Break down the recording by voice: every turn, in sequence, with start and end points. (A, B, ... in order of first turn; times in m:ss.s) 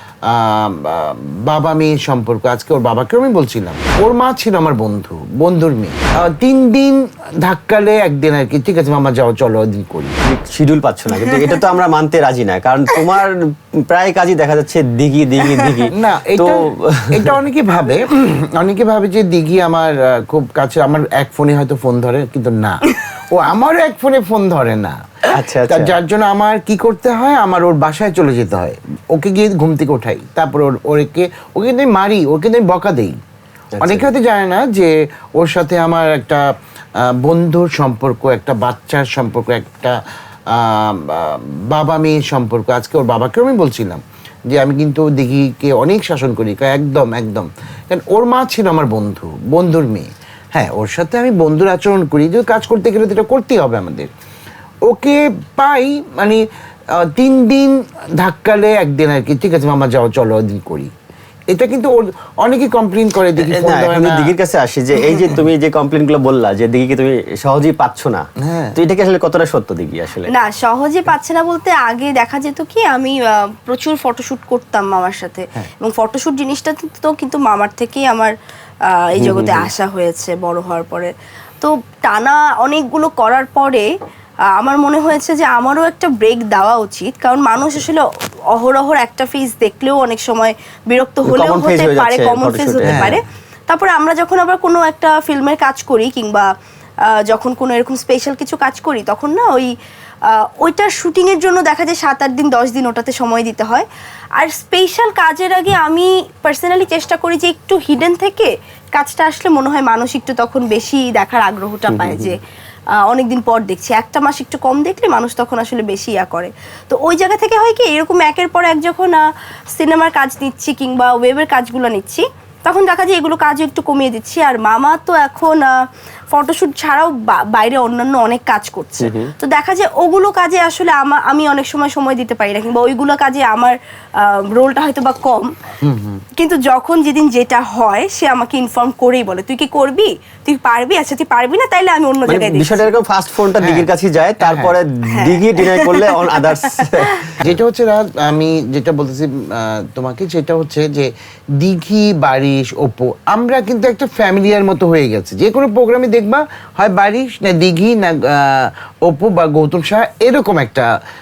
0:00.3-0:10.2 A
0:10.3-0:17.3 B
0:11.2-0:11.6 C
0:15.5-0:15.9 C
0:15.9-0:25.0 A
0:25.3-0:26.0 B
0:25.7-0:33.2 A
0:33.7-0:34.1 B
0:33.8-0:36.4 A
0:37.1-0:40.0 A
0:40.5-0:54.1 A
0:54.9-1:00.9 A
1:01.5-1:04.3 A
1:03.4-1:10.3 B
1:08.4-1:08.8 A
1:10.3-1:18.3 C
1:18.9-1:23.9 C
1:19.2-1:19.7 B
1:24.6-1:36.4 C
1:31.2-1:33.2 B
1:32.8-1:33.2 A
1:37.1-1:39.7 C
1:40.3-1:43.9 C
1:44.4-1:52.4 C
1:51.9-1:52.4 B
1:53.1-1:59.2 C
1:59.8-2:05.7 C
2:06.3-2:15.5 C
2:09.0-2:09.3 B
2:15.8-2:16.2 A
2:16.4-2:22.9 C
2:22.3-2:27.2 B
2:23.6-2:23.9 A
2:24.4-2:24.7 A
2:25.1-2:26.8 C
2:27.4-2:31.1 A
2:31.6-2:40.9 A